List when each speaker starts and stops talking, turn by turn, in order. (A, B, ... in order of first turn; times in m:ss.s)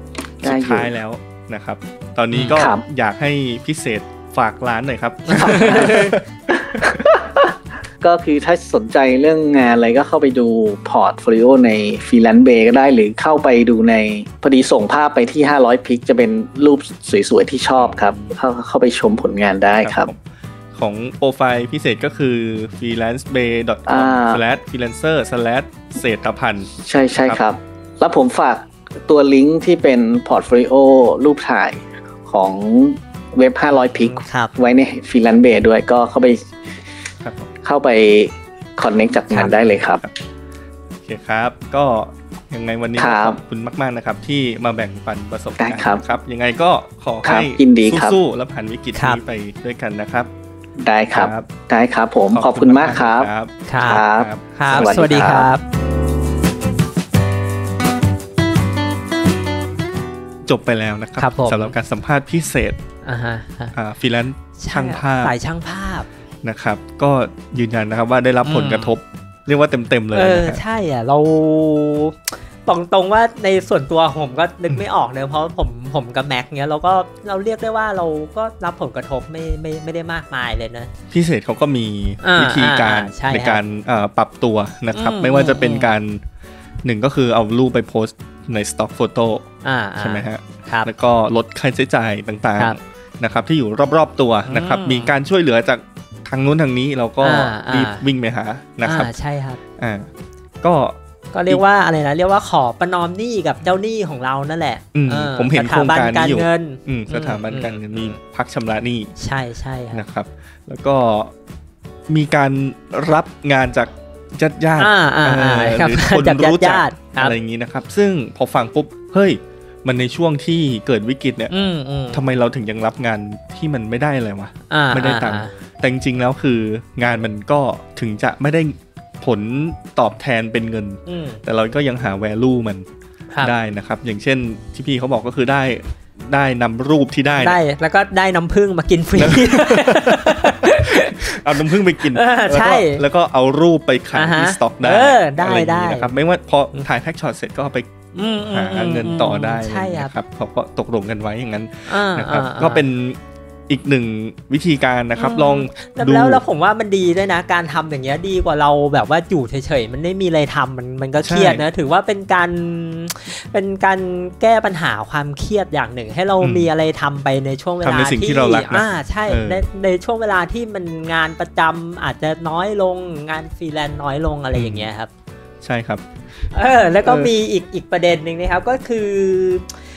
0:00.4-0:06.2 A
0:00.4-0:00.9 B
0:02.3-0:02.6 C
0:02.5-0:02.8 B
0:05.3-0:06.2 C
0:05.4-0:20.1 B
0:06.8-0:07.0 A
0:17.8-0:18.4 A
0:19.8-0:20.2 A
0:20.7-0:27.4 A
0:23.9-0:24.4 B
0:26.8-0:36.5 B
0:34.0-0:34.5 C
0:37.2-0:37.5 A
0:37.6-0:40.0 B
0:39.3-0:39.6 C
0:39.8-0:40.1 A
0:41.0-0:50.3 A
0:43.0-0:43.4 B
0:45.6-0:46.0 B
0:47.2-0:48.2 B
0:48.9-0:49.2 C
0:50.8-0:53.3 B
0:51.1-0:51.5 A
0:52.3-0:55.0 A
0:53.7-0:55.6 C
0:53.8-0:55.5 B
1:00.4-1:02.8 A
1:01.2-1:01.7 C
1:03.0-1:03.8 C
1:03.7-1:05.3 A
1:04.6-1:06.1 C
1:06.4-1:10.6 A
1:08.4-1:08.9 C
1:10.1-1:20.9 C
1:21.1-1:26.2 A
1:22.2-1:23.6 C
1:24.9-1:25.9 C
1:26.8-1:29.5 A
1:29.6-1:30.9 C
1:30.0-1:39.1 A
1:34.5-1:35.1 C
1:37.2-1:38.0 C
1:38.8-1:39.6 C
1:39.8-1:40.1 A
1:40.6-1:41.0 A
1:41.3-1:48.2 C
1:44.9-1:49.1 A
1:49.2-1:50.0 C
1:49.9-1:51.3 A
1:52.1-2:01.5 A
1:54.8-1:57.4 C
2:01.5-2:02.2 C
2:02.1-2:12.9 A
2:04.7-2:05.5 C
2:11.1-2:11.4 C
2:13.4-2:17.6 A
2:17.4-2:23.0 C
2:19.2-2:27.9 A
2:24.1-2:26.1 C
2:28.2-2:30.1 C
2:28.5-2:36.4 A
2:31.9-2:32.8 C
2:35.2-2:55.1 C
2:41.2-2:41.6 A
2:46.4-2:46.7 A
2:47.8-2:49.6 A
2:54.5-2:54.9 A
2:55.6-2:56.0 A
2:56.5-2:59.7 C
2:57.0-2:57.3 A